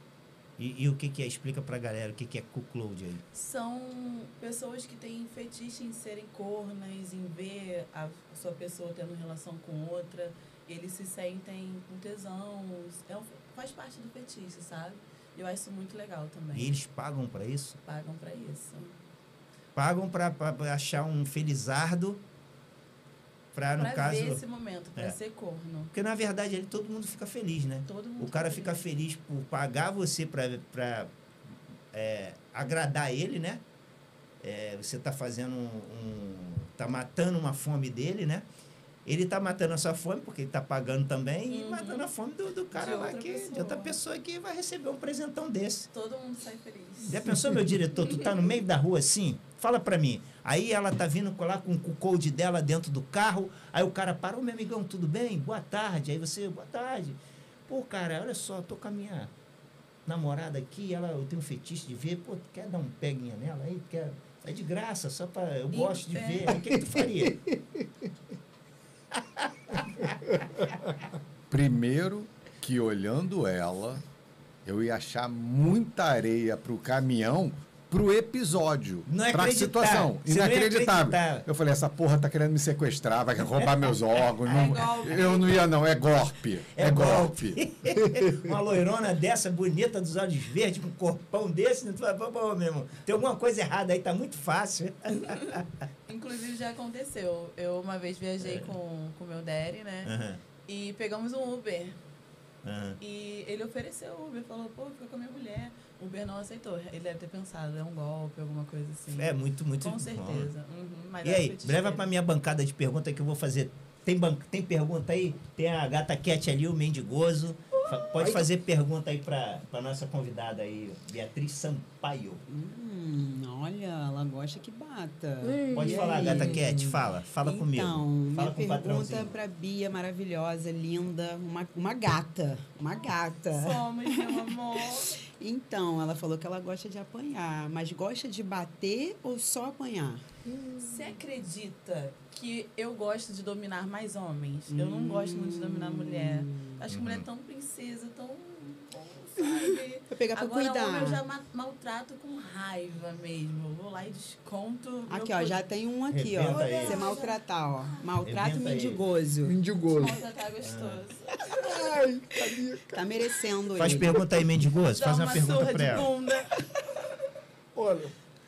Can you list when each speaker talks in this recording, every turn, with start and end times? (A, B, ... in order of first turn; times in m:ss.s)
0:00.6-0:03.2 A
0:03.3-0:16.8 B
0:16.5-0:17.8 A
0:17.8-0:19.0 B
0:19.8-0:22.2 A
0:23.5-0:24.4 A
0:23.8-0:25.9 B
0:25.9-0:31.1 A
0:27.9-0:28.8 B
0:31.9-0:33.6 A
0:34.4-0:38.5 A
0:39.0-0:45.9 A
0:41.5-0:42.1 B
0:42.7-0:44.0 B
0:45.9-0:47.4 B
0:47.0-0:59.3 A
0:48.0-0:48.3 B
1:00.1-1:07.4 A
1:05.7-1:06.6 B
1:06.7-1:07.8 C
1:09.2-1:10.8 A
1:11.5-1:14.0 D
1:14.6-1:27.6 D
1:19.1-1:21.5 A
1:24.4-1:25.7 B
1:26.7-1:35.6 A
1:36.1-1:40.1 B
1:38.4-1:38.7 A
1:40.0-1:40.4 A
1:40.7-1:42.0 B
1:42.6-1:43.0 A
1:43.0-1:52.1 B
1:49.1-1:50.5 A
1:51.2-2:02.4 A
1:58.2-1:58.5 C
2:02.5-2:14.5 E
2:05.7-2:09.3 A
2:13.5-2:15.2 B
2:15.4-2:20.2 E
2:20.8-2:35.7 B
2:24.7-2:26.7 E
2:26.9-2:27.3 A
2:30.1-2:31.2 E
2:35.1-2:39.5 E
2:36.1-2:37.2 A
2:36.4-2:38.1 B
2:38.2-2:39.0 A
2:39.4-2:40.2 C
2:39.9-2:41.6 B
2:40.6-2:41.0 A
2:41.6-2:43.0 C
2:42.9-2:44.2 E
2:43.8-2:46.1 A
2:44.9-2:46.7 B
2:47.8-2:48.1 C